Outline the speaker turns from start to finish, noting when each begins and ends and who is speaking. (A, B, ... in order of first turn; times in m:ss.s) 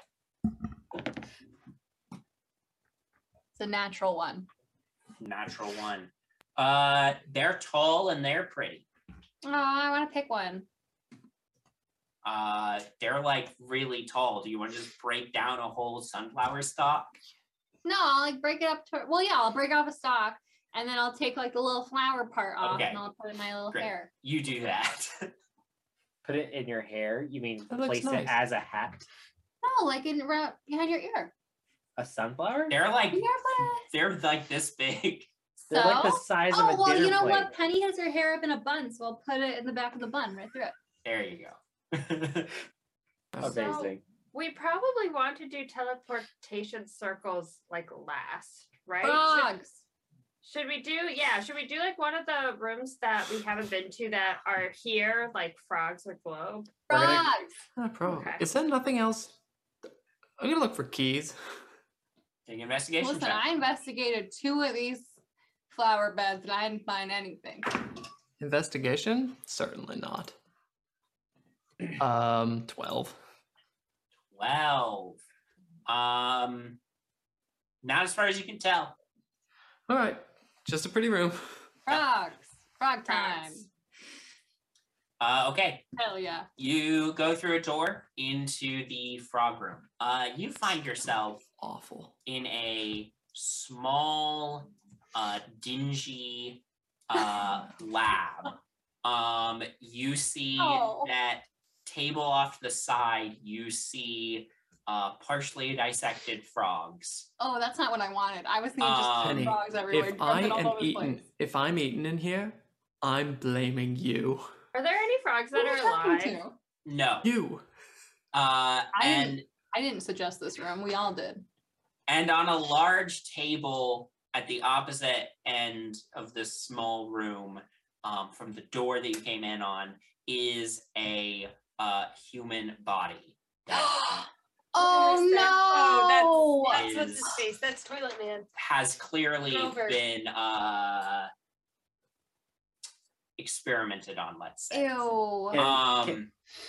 0:03.5-0:04.5 A
0:05.2-0:08.8 B
0:09.4-0:10.6 A
0:12.2-0:17.1 B
0:17.8-0:24.1 A
0:22.6-0:23.0 B
0:23.7-0:25.3 B
0:26.2-0:29.0 C
0:27.7-0:28.4 D
0:29.6-0:31.3 A
0:32.0-0:32.8 C
0:32.7-0:35.3 B
0:33.1-0:33.8 A
0:35.7-0:37.5 C
0:35.7-0:40.7 A
0:41.0-0:42.5 B
0:43.3-0:43.6 D
0:43.4-0:44.0 C
0:43.6-0:49.5 E
0:49.0-0:49.8 A
0:50.4-0:57.2 E
0:56.9-0:57.5 A
0:56.9-0:57.2 C
0:57.8-0:59.4 D
0:58.0-0:58.5 E
1:00.4-1:01.4 D
1:02.5-1:03.4 B
1:03.0-1:05.2 A
1:05.7-1:07.7 A
1:08.4-1:10.3 D
1:12.0-1:13.2 D
1:14.3-1:15.2 B
1:15.8-1:16.8 B
1:17.8-1:19.0 B
1:19.9-1:21.5 D
1:21.9-1:23.6 A
1:23.1-1:23.6 E
1:25.2-1:25.8 B
1:26.0-1:26.5 A
1:26.6-1:31.4 B
1:31.6-1:32.1 D
1:32.2-1:47.3 B
1:40.6-1:41.1 A
1:47.4-1:51.2 A
1:48.8-1:49.6 B
1:49.2-1:54.5 D
1:54.7-1:56.4 E
1:55.5-1:56.5 A
1:56.8-1:57.3 B
1:57.2-1:57.6 D
1:58.3-1:59.4 B
1:58.9-2:01.4 A
2:02.1-2:14.1 B
2:13.7-2:16.9 A
2:14.8-2:18.5 F
2:16.7-2:17.3 B
2:18.5-2:21.3 B
2:19.4-2:20.0 F
2:23.4-2:26.3 B
2:24.7-2:25.6 A
2:25.5-2:26.2 C